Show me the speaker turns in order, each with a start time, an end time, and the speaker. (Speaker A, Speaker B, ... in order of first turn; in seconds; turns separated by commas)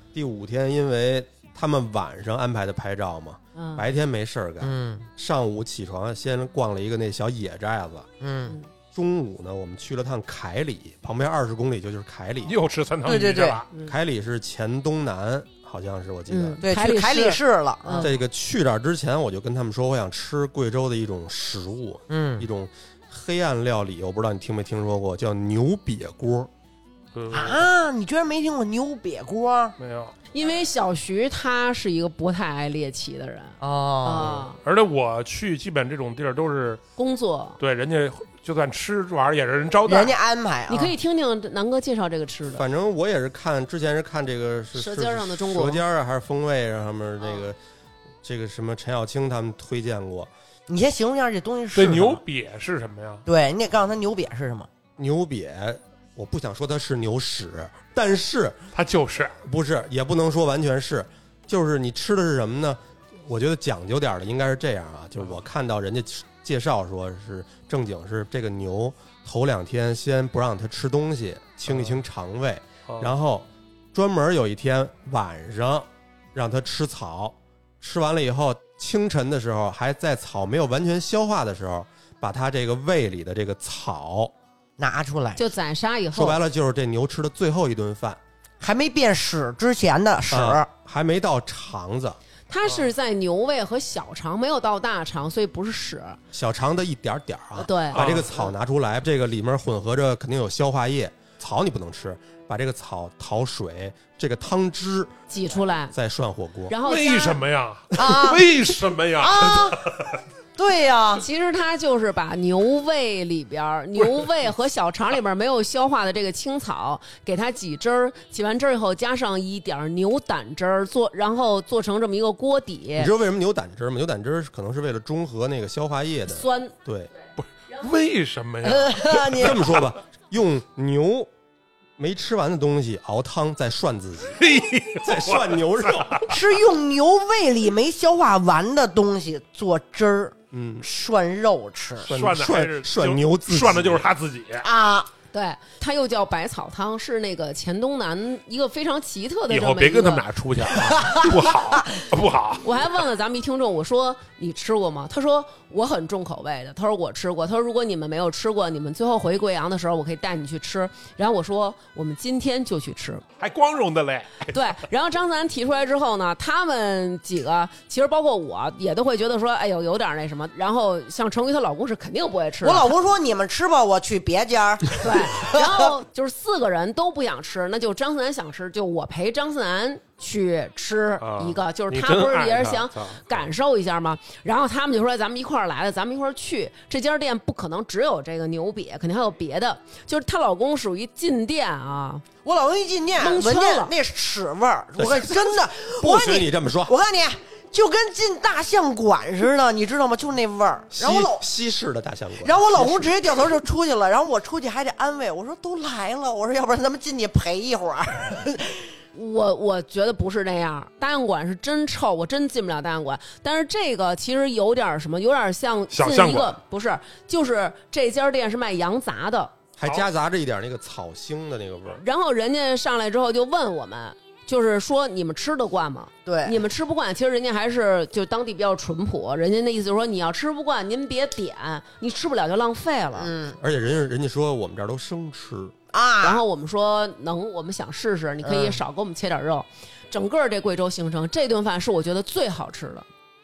Speaker A: 0.1-8.1, Speaker B: 3.6-3.8, Speaker C: 4.6-5.1, Speaker C: 8.2-8.6, Speaker A: 8.9-12.6, Speaker D: 12.4-13.7, Speaker C: 13.1-13.6, Speaker A: 13.8-16.6, Speaker B: 16.3-18.1, Speaker C: 16.6-18.1, Speaker A: 18.0-26.5, Speaker C: 22.1-22.5, Speaker D: 27.1-27.7, Speaker C: 27.3-29.8, Speaker D: 29.8-30.1, Speaker B: 30.3-34.6, Speaker C: 33.6-34.4, Speaker D: 34.6-36.8, Speaker B: 37.0-37.6, Speaker D: 37.6-40.2, Speaker C: 39.9-41.0, Speaker B: 40.7-42.6, Speaker A: 42.5-47.6, Speaker B: 44.8-45.8, Speaker A: 48.2-50.3, Speaker C: 50.7-52.2, Speaker D: 51.8-53.2, Speaker C: 53.3-54.7, Speaker A: 55.0-58.6, Speaker D: 58.7-59.4, Speaker A: 59.4-84.3, Speaker D: 71.7-72.0, Speaker D: 72.9-73.2, Speaker C: 84.8-85.5, Speaker B: 85.4-86.4, Speaker A: 86.1-88.2, Speaker C: 88.6-90.7, Speaker A: 90.3-92.2, Speaker B: 92.5-96.2, Speaker A: 96.3-105.1, Speaker B: 97.6-98.1, Speaker D: 97.9-98.3, Speaker B: 105.3-105.9, Speaker A: 105.9-106.8, Speaker B: 106.7-107.4, Speaker D: 106.8-110.2, Speaker C: 108.0-108.5, Speaker C: 109.2-109.8, Speaker C: 110.6-111.2, Speaker B: 111.2-123.1, Speaker A: 123.0-127.1, Speaker B: 126.3-126.7, Speaker D: 127.7-129.6, Speaker C: 128.6-129.6, Speaker A: 129.4-131.3, Speaker A: 132.0-134.4, Speaker D: 134.4-136.2, Speaker A: 135.0-136.3, Speaker C: 136.3-142.1, Speaker A: 140.5-140.9, Speaker D: 142.0-144.7, Speaker A: 142.1-144.1, Speaker C: 144.6-145.1, Speaker B: 145.3-150.2, Speaker D: 149.5-152.7, Speaker C: 150.7-152.0, Speaker B: 152.6-163.2, Speaker D: 163.4-164.6, Speaker B: 164.5-172.9, Speaker C: 172.6-175.9, Speaker B: 175.0-192.2, Speaker D: 181.2-183.3, Speaker C: 192.4-201.4, Speaker B: 193.2-193.9, Speaker A: 195.0-196.9, Speaker A: 200.9-203.2, Speaker C: 202.4-208.8, Speaker B: 209.1-219.6, Speaker D: 215.9-216.6, Speaker A: 219.8-222.0, Speaker B: 222.0-233.3, Speaker C: 226.3-226.6, Speaker C: 233.2-233.6, Speaker A: 233.6-235.8, Speaker C: 235.9-236.4, Speaker B: 236.2-243.1, Speaker C: 238.4-238.8